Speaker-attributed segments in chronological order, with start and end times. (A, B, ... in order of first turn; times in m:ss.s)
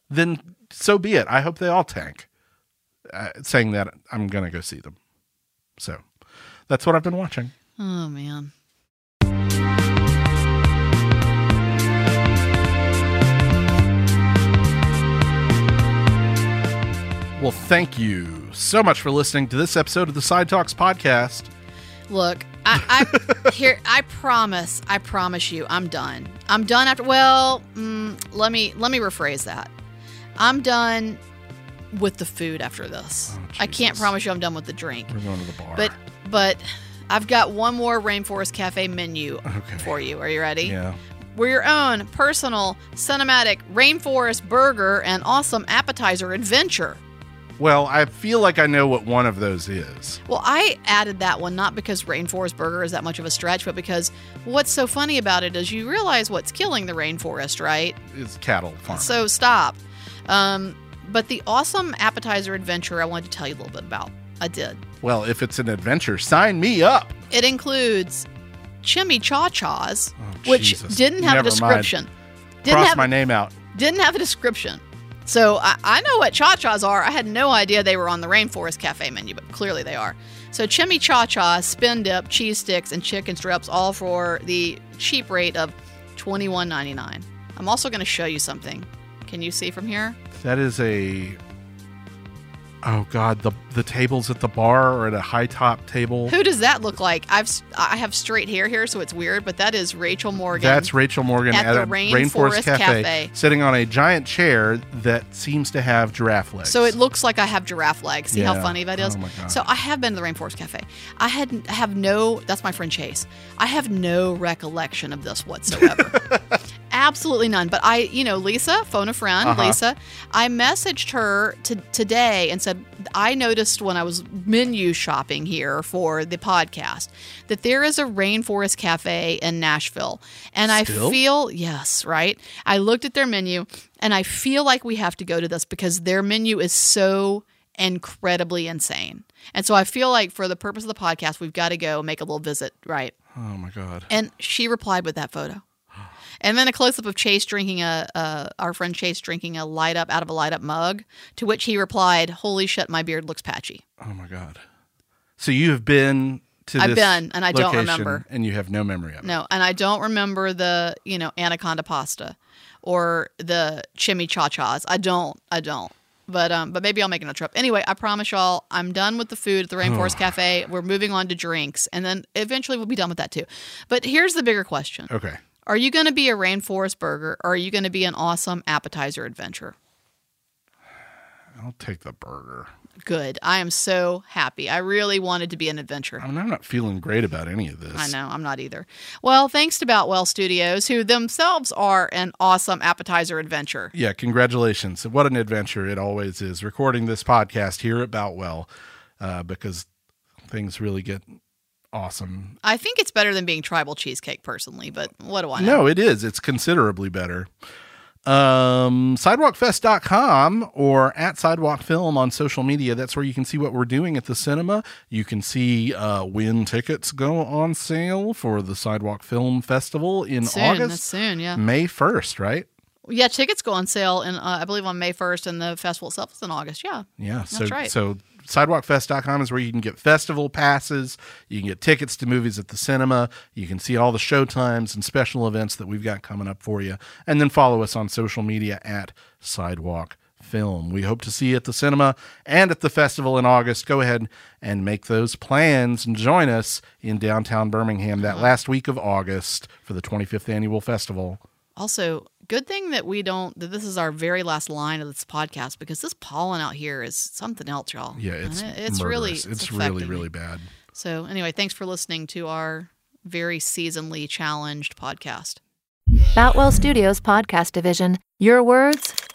0:00.1-0:02.3 A
0:03.1-0:05.0 A
0:05.8-0:06.0 A
0:06.7-0:07.5 A
0:07.8-0:08.5 B
0:17.4-0:21.5 A
0:22.1-0:29.7 B
0:22.8-0:23.5 A
0:30.4-0:31.2 B
0:31.9-0:35.1 B
0:33.3-0:34.1 A
0:35.1-0:35.9 A
0:35.8-0:40.8 B
0:39.5-0:39.9 A
0:40.6-0:41.0 A
0:41.4-0:47.0 B
0:47.6-0:50.2 A
0:50.3-0:58.0 B
0:58.1-0:59.2 A
0:58.9-1:04.8 B
1:05.0-1:07.2 A
1:07.3-1:08.3 B
1:08.8-1:12.1 B
1:10.2-1:11.9 A
1:12.6-1:13.1 B
1:12.7-1:13.6 A
1:13.7-1:30.2 B
1:30.3-1:31.4 A
1:32.8-1:36.4 A
1:36.3-1:40.9 B
1:40.5-1:47.0 A
1:41.5-1:43.3 B
1:46.6-1:56.2 B
1:48.3-1:49.6 A
1:55.8-1:56.6 A
1:56.9-2:23.1 B
1:59.4-1:59.8 A
2:10.7-2:11.2 A
2:23.4-2:24.1 A
2:24.1-2:25.6 B
2:26.4-2:33.8 B
2:34.0-2:34.6 A
2:35.4-2:39.4 A
2:36.8-2:38.2 B
2:39.2-2:55.1 B
2:49.8-2:50.3 A
2:55.1-2:55.4 A
2:55.7-2:59.8 B
3:01.6-3:02.7 A
3:03.0-3:06.2 B
3:06.2-3:08.1 A
3:07.9-3:13.9 B
3:13.9-3:18.7 A
3:19.2-3:19.9 A
3:20.5-3:21.3 A
3:21.9-3:22.6 A
3:22.6-3:25.8 B
3:25.6-3:27.5 A
3:28.2-3:41.0 A
3:40.4-3:41.6 B
3:41.5-3:42.7 A
3:43.1-3:47.9 B
3:47.2-4:11.4 A
4:08.2-4:08.5 B
4:11.8-4:20.3 B
4:18.2-4:20.7 A
4:20.9-4:25.6 B
4:26.4-4:29.2 C